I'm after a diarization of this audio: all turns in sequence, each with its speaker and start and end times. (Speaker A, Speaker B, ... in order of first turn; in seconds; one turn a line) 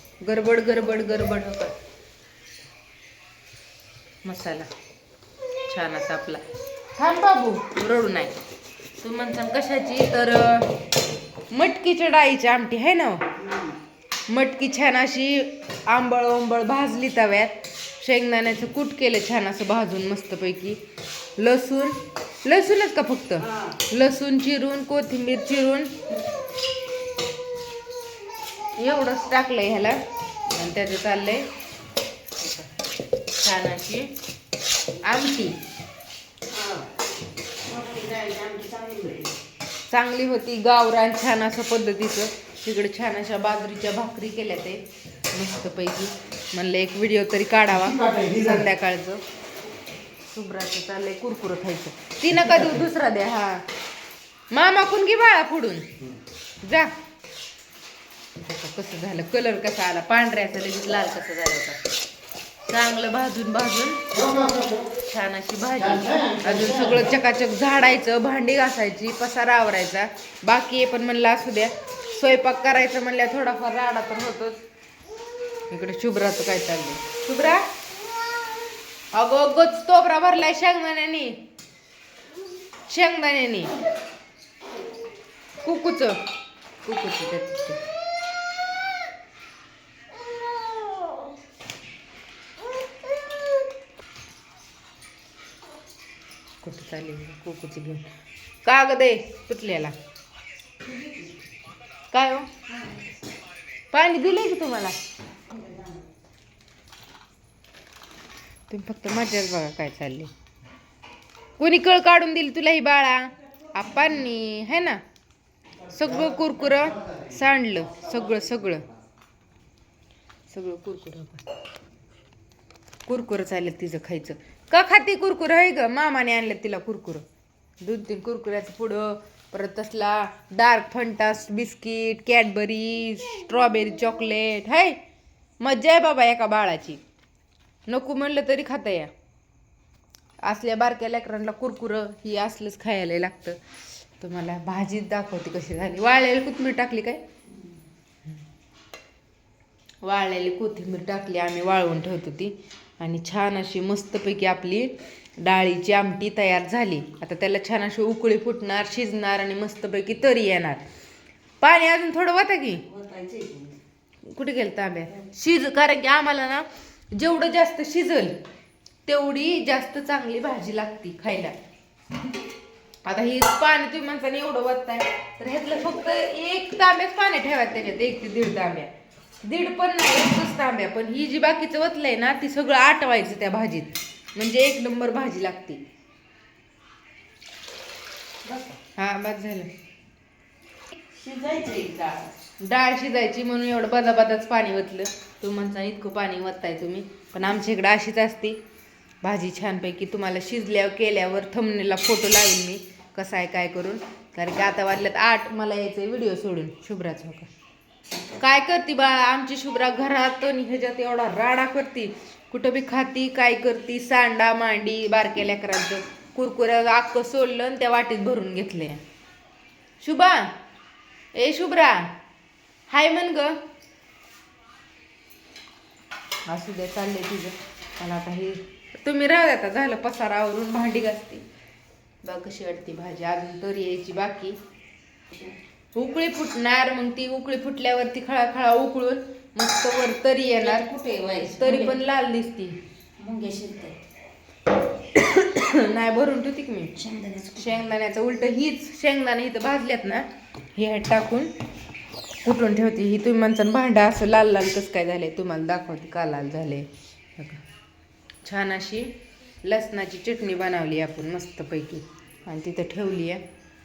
Speaker A: 0.2-1.8
Speaker A: 4.2-4.7
Speaker A: 5.7-6.4
Speaker A: 7.0-8.4
Speaker A: 9.0-10.8
Speaker A: 11.5-13.2
Speaker B: 13.4-13.8
Speaker A: 14.3-20.8
Speaker A: 21.4-25.9
Speaker A: 28.8-31.5
Speaker A: 32.4-32.7
Speaker A: 33.4-34.1
Speaker A: 35.0-35.6
Speaker B: 36.5-36.9
Speaker B: 37.6-39.3
Speaker A: 39.9-49.2
Speaker A: 50.3-53.7
Speaker A: 54.5-56.0
Speaker A: 56.6-56.9
Speaker A: 58.4-61.8
Speaker A: 62.7-74.6
Speaker A: 75.7-77.7
Speaker A: 79.1-81.4
Speaker A: 82.9-83.8
Speaker A: 85.6-86.2
Speaker A: 86.8-87.8
Speaker A: 96.6-98.1
Speaker A: 98.6-100.0
Speaker B: 100.9-101.2
Speaker A: 102.1-102.5
Speaker A: 103.9-105.0
Speaker B: 105.5-106.0
Speaker A: 108.7-110.3
Speaker A: 111.6-115.0
Speaker A: 115.9-118.8
Speaker A: 120.5-121.5
Speaker A: 123.1-127.2
Speaker A: 127.8-135.0
Speaker A: 135.6-137.0
Speaker A: 137.9-139.1
Speaker A: 140.4-143.6
Speaker A: 144.2-147.2
Speaker A: 150.0-160.8
Speaker A: 161.6-162.9
Speaker B: 162.9-163.8
Speaker A: 164.2-168.4
Speaker A: 169.1-171.6
Speaker A: 173.1-178.9
Speaker A: 179.4-185.8
Speaker B: 188.4-188.8
Speaker A: 188.9-189.7
Speaker B: 191.2-192.3
Speaker A: 192.6-198.6
Speaker A: 199.2-207.5
Speaker A: 208.4-219.0
Speaker A: 220.0-220.6
Speaker A: 221.3-222.1
Speaker A: 222.9-223.6
Speaker A: 226.5-231.4
Speaker A: 232.2-234.6
Speaker A: 235.9-240.9
Speaker B: 240.6-242.0
Speaker A: 241.5-242.8
Speaker B: 243.2-244.0
Speaker A: 245.1-247.0
Speaker B: 247.0-247.8
Speaker A: 247.5-251.5
Speaker A: 252.4-257.6
Speaker A: 258.4-263.4